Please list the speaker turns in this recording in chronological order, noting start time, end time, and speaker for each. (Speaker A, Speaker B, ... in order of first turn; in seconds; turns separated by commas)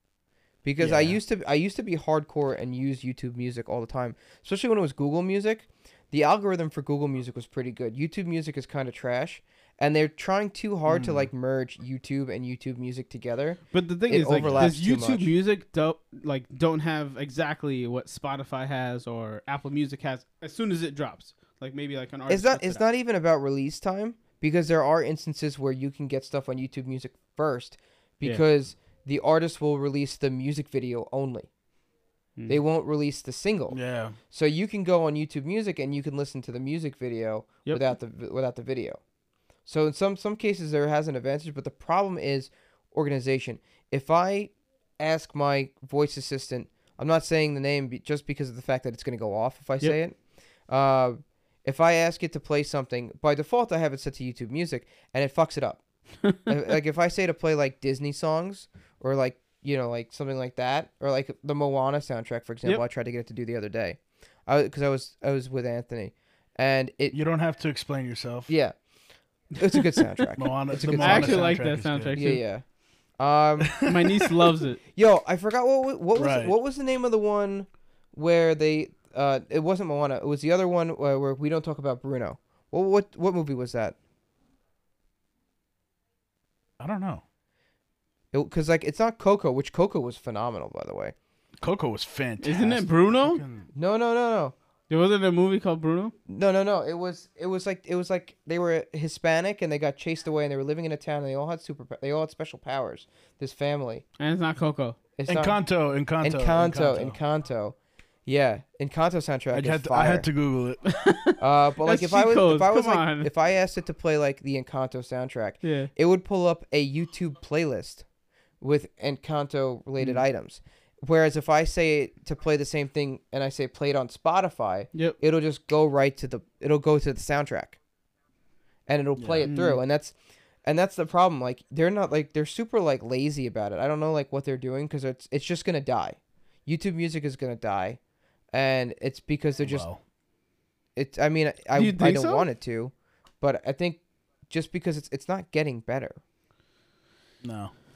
Speaker A: 0.6-15.3, Speaker B: 0.8-1.2, Speaker B: 10.9-11.3, Speaker C: 13.7-22.8, Speaker B: 14.4-14.7, Speaker A: 22.3-31.5, Speaker A: 32.5-33.8, Speaker B: 33.7-34.2, Speaker A: 34.3-39.0, Speaker A: 39.6-50.2, Speaker A: 50.7-55.8, Speaker A: 56.5-67.2, Speaker B: 67.1-68.5, Speaker A: 68.5-68.8, Speaker A: 69.5-71.5, Speaker B: 70.4-72.2, Speaker C: 71.0-72.4, Speaker A: 72.1-72.6, Speaker A: 73.2-73.8, Speaker B: 73.6-74.2, Speaker C: 73.8-74.8, Speaker A: 74.9-84.0, Speaker B: 76.2-76.5, Speaker B: 86.8-87.2, Speaker A: 88.3-91.1, Speaker B: 91.6-93.7, Speaker C: 92.4-93.4, Speaker A: 93.7-94.5, Speaker C: 94.9-96.1, Speaker A: 96.3-104.0, Speaker C: 104.2-105.0, Speaker A: 105.2-105.6, Speaker B: 105.3-107.2, Speaker A: 106.2-110.3, Speaker B: 109.5-110.8, Speaker C: 110.8-113.3, Speaker A: 111.4-118.0, Speaker C: 115.6-115.9, Speaker A: 118.6-127.8, Speaker A: 128.9-138.0, Speaker B: 129.2-129.5, Speaker C: 129.4-129.8, Speaker A: 138.5-139.8, Speaker B: 139.6-140.0, Speaker A: 140.9-146.2, Speaker C: 141.7-142.5, Speaker B: 147.4-147.7